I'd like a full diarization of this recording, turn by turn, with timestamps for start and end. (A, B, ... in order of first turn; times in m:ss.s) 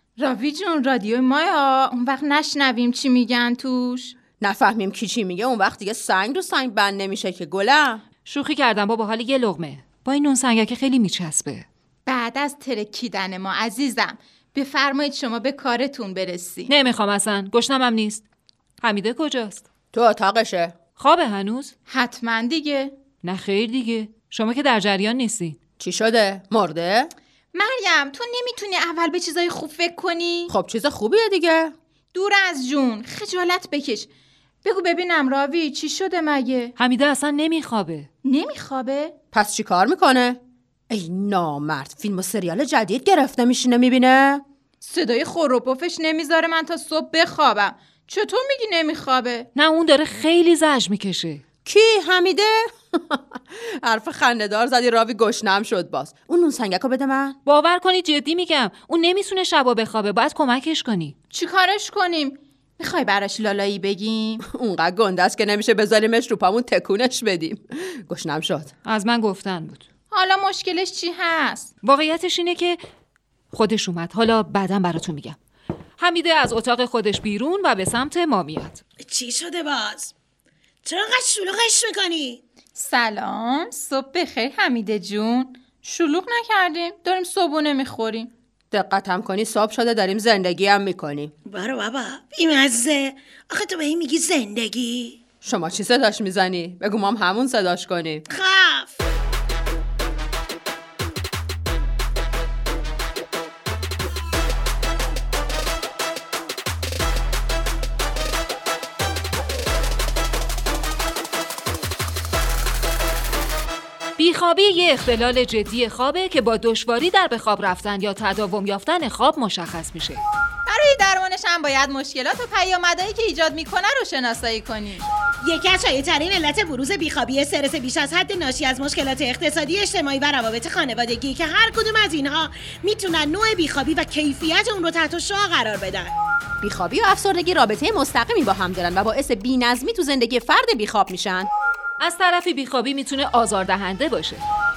0:00.2-0:04.1 A
0:04.4-0:08.0 B
0:08.2-0:11.6 C
0:12.0-0:16.7 A
0:16.7-0:18.2 C
0:18.8-0:19.6 C
0:19.9-0:20.8 B
0:21.0-0:21.7 C
0:21.9-0:22.9 A
0:23.2-0:25.6 C
0:25.8-0:27.1 B
0:27.5-0:30.5 A
0:30.5-0:31.7 B
0:32.1-0:34.1 A
0:34.6-0:36.7 A
0:36.8-0:38.1 C
0:38.2-0:39.1 A
0:39.3-0:40.4 B
0:40.9-0:44.4 B
0:44.8-0:49.5 A
0:49.5-0:51.4 C
0:51.6-0:57.4 B
0:57.4-1:01.1 C
1:01.3-1:04.4 A
1:04.5-1:08.7 B
1:08.8-1:09.8 C
1:10.1-1:11.7 A
1:11.8-1:12.8 C
1:13.5-1:15.4 C
1:16.0-1:18.8 C
1:19.0-1:20.1 D
1:20.8-1:22.4 D
1:22.7-1:28.3 A
1:28.7-1:31.3 B
1:31.5-1:35.2 D
1:35.4-1:38.2 B
1:38.3-1:39.0 D
1:54.2-2:00.2 C
2:00.6-2:05.0 A
2:05.4-2:16.1 D
2:16.6-2:21.5 B
2:22.0-2:24.4 C